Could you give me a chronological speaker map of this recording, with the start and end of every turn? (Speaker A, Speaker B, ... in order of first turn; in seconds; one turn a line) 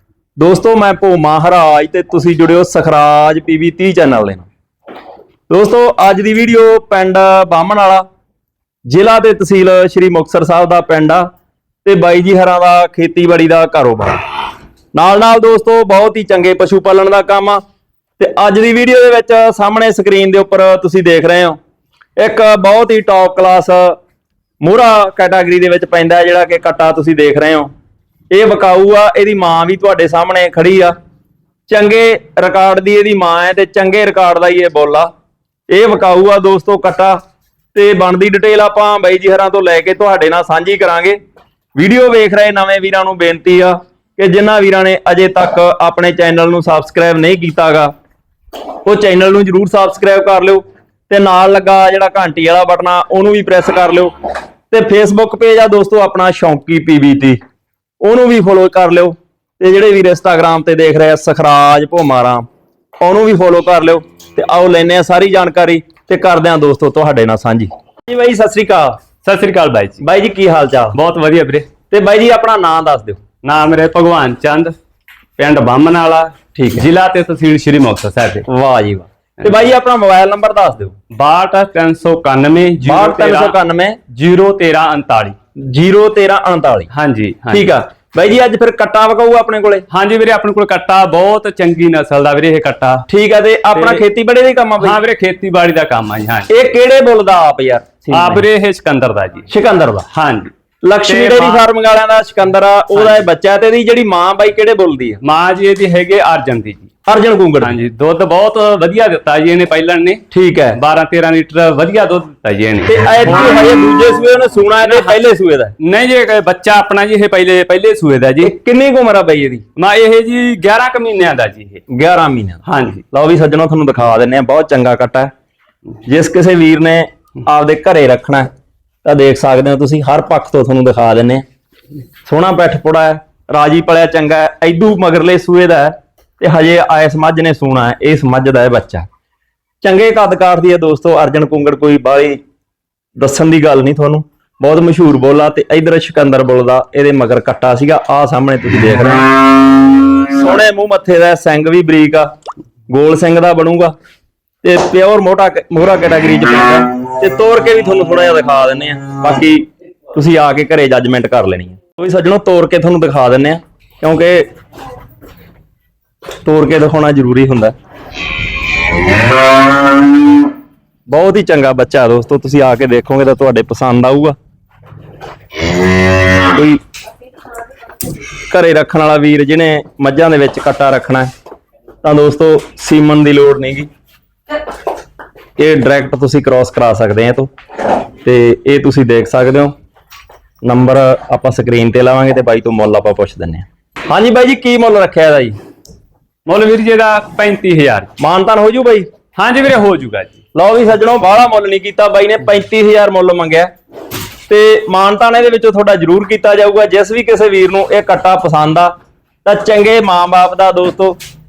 Speaker A: 0.4-4.5
Speaker A: 5.5-8.0
Speaker A: 8.9-11.3
Speaker A: 11.8-14.2
Speaker A: 14.9-17.6
Speaker A: 18.2-21.6
Speaker A: 22.2-24.0
Speaker A: 24.6-27.7
Speaker A: 28.3-30.9
Speaker A: 31.7-35.1
Speaker A: 35.7-37.2
Speaker A: 37.7-41.2
Speaker A: 41.8-47.9
Speaker A: 48.8-54.1
Speaker A: 54.7-57.4
Speaker A: 58.0-62.5
Speaker A: 63.0-69.0
Speaker B: 69.2-70.0
Speaker A: 70.0-71.0
Speaker B: 70.9-71.7
Speaker A: 71.9-73.2
Speaker B: 73.4-74.7
Speaker B: 75.4-78.5
Speaker A: 76.5-76.8
Speaker A: 78.5-80.9
Speaker B: 81.1-83.6
Speaker A: 82.8-84.0
Speaker B: 84.1-85.3
Speaker A: 85.6-86.9
Speaker B: 86.9-87.7
Speaker A: 87.5-89.8
Speaker B: 89.9-93.0
Speaker A: 93.1-95.0
Speaker B: 93.7-94.0
Speaker B: 94.8-96.5
Speaker A: 96.5-98.5
Speaker B: 98.1-99.5
Speaker A: 99.5-100.0
Speaker B: 100.1-100.5
Speaker A: 100.8-105.2
Speaker B: 101.0-101.7
Speaker B: 102.9-103.2
Speaker B: 105.2-106.9
Speaker A: 107.0-107.8
Speaker B: 107.6-113.6
Speaker A: 110.3-110.8
Speaker A: 112.8-115.7
Speaker B: 114.8-115.2
Speaker B: 115.8-118.5
Speaker A: 118.4-119.6
Speaker B: 119.8-121.8
Speaker A: 121.9-125.3
Speaker B: 122.6-123.0
Speaker A: 126.0-128.5
Speaker A: 129.0-131.4
Speaker A: 132.2-139.1
Speaker A: 139.8-142.4
Speaker A: 143.2-149.3
Speaker A: 150.2-152.3
Speaker A: 152.9-153.9
Speaker A: 154.6-164.5
Speaker A: 166.4-167.7
Speaker A: 171.1-174.3
Speaker A: 176.5-176.8
Speaker A: 178.5-181.3
Speaker A: 182.0-183.9
Speaker A: 185.6-187.5
Speaker A: 188.2-189.7
Speaker A: 190.6-195.6
Speaker B: 196.5-198.1
Speaker A: 198.2-199.1
Speaker B: 199.3-200.4
Speaker A: 200.5-203.7
Speaker A: 204.5-208.9
Speaker A: 209.4-211.2